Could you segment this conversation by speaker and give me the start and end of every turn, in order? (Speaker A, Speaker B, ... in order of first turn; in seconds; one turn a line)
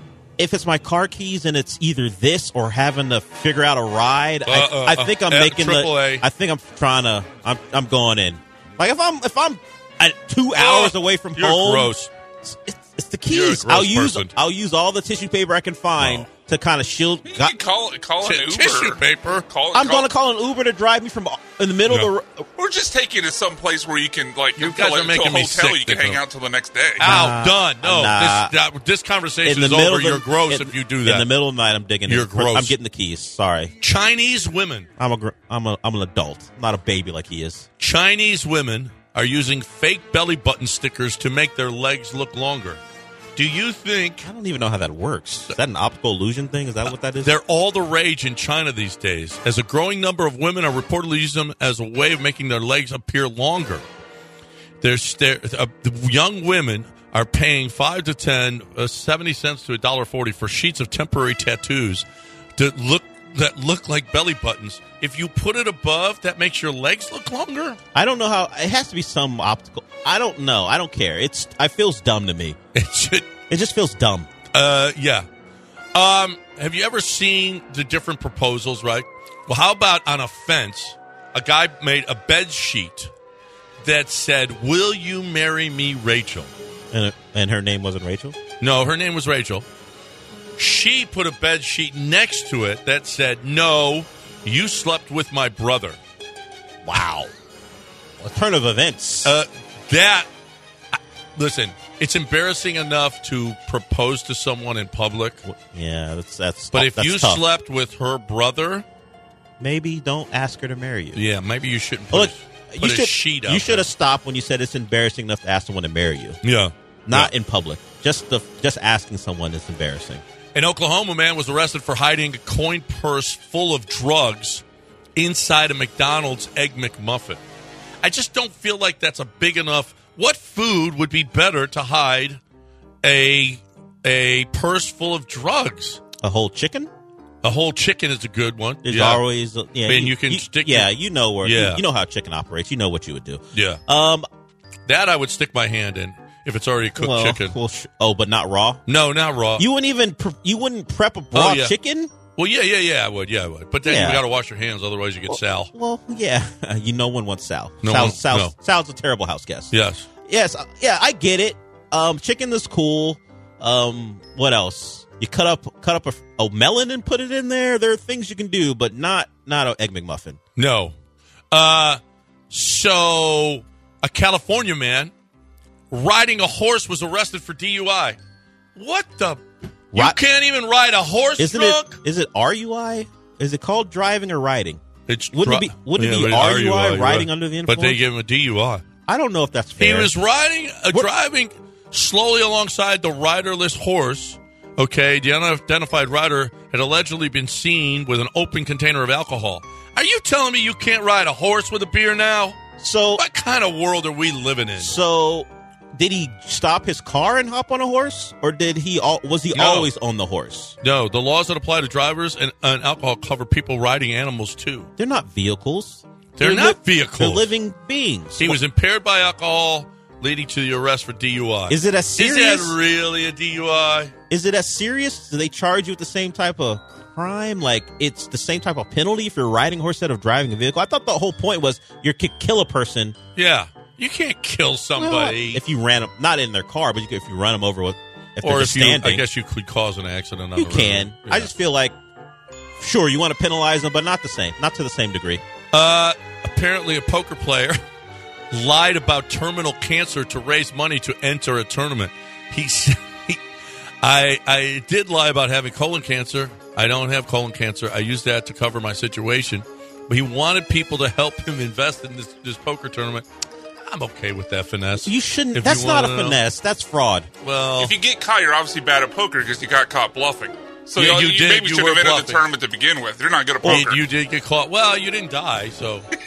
Speaker A: 0.4-11.9
Speaker B: 4.5-6.2
Speaker B: 10.6-12.1
Speaker A: 12.4-17.6
Speaker B: 13.3-14.3
Speaker B: 16.0-16.3
Speaker C: 17.3-20.1
Speaker B: 18.2-19.4
Speaker A: 19.7-22.4
Speaker B: 21.9-22.1
Speaker C: 22.6-27.3
Speaker B: 24.6-26.2
Speaker B: 27.0-31.3
Speaker A: 27.0-28.5
Speaker A: 29.4-33.7
Speaker B: 32.1-32.7
Speaker B: 33.8-34.9
Speaker A: 35.0-37.7
Speaker B: 37.8-42.8
Speaker B: 43.4-44.3
Speaker A: 44.2-47.3
Speaker B: 47.2-53.9
Speaker B: 54.8-62.0
Speaker B: 62.6-67.8
Speaker A: 68.0-72.6
Speaker B: 72.7-73.3
Speaker A: 73.5-74.3
Speaker B: 74.5-75.3
Speaker B: 76.0-83.1
Speaker B: 83.8-86.5
Speaker A: 86.9-88.4
Speaker B: 88.6-89.6
Speaker B: 90.6-96.0
Speaker A: 96.8-97.3
Speaker A: 98.2-99.3
Speaker B: 99.2-100.3
Speaker B: 100.9-105.4
Speaker A: 105.5-107.4
Speaker B: 106.7-108.8
Speaker A: 109.6-111.2
Speaker B: 111.1-113.9
Speaker A: 112.1-116.4
Speaker B: 116.4-117.3
Speaker A: 117.1-120.2
Speaker B: 120.5-124.6
Speaker B: 125.2-127.4
Speaker B: 128.0-132.4
Speaker B: 133.0-136.0
Speaker A: 136.2-136.9
Speaker B: 137.4-139.2
Speaker A: 138.8-144.3
Speaker B: 139.9-141.8
Speaker B: 143.5-143.8
Speaker B: 144.9-147.6
Speaker A: 147.0-148.8
Speaker B: 148.9-149.6
Speaker A: 149.6-152.1
Speaker B: 151.3-151.7
Speaker B: 152.3-155.7
Speaker A: 153.8-154.2
Speaker A: 155.3-159.7
Speaker B: 157.8-158.5
Speaker B: 159.7-160.1
Speaker A: 160.3-170.4
Speaker B: 170.6-170.9
Speaker B: 171.5-175.1
Speaker B: 175.9-178.2
Speaker B: 178.8-179.4
Speaker B: 179.9-182.0
Speaker A: 181.4-188.0
Speaker B: 185.1-188.8
Speaker A: 189.1-190.1
Speaker B: 189.8-202.6
Speaker A: 202.8-203.2
Speaker B: 203.2-204.9
Speaker A: 204.8-210.8
Speaker B: 209.5-209.9
Speaker B: 210.8-214.9
Speaker A: 215.0-218.6
Speaker B: 216.4-217.5
Speaker B: 218.4-224.1
Speaker A: 221.7-222.7
Speaker A: 224.3-233.2
Speaker B: 233.4-235.6
Speaker A: 234.9-239.2
Speaker B: 238.4-241.5
Speaker A: 240.6-241.9
Speaker A: 242.8-245.4
Speaker B: 245.7-247.8
Speaker B: 248.5-253.4
Speaker B: 254.0-263.2
Speaker B: 263.9-266.4
Speaker A: 265.0-267.3
Speaker B: 267.4-267.9
Speaker C: 267.8-274.1
Speaker B: 270.9-272.4
Speaker B: 273.6-276.1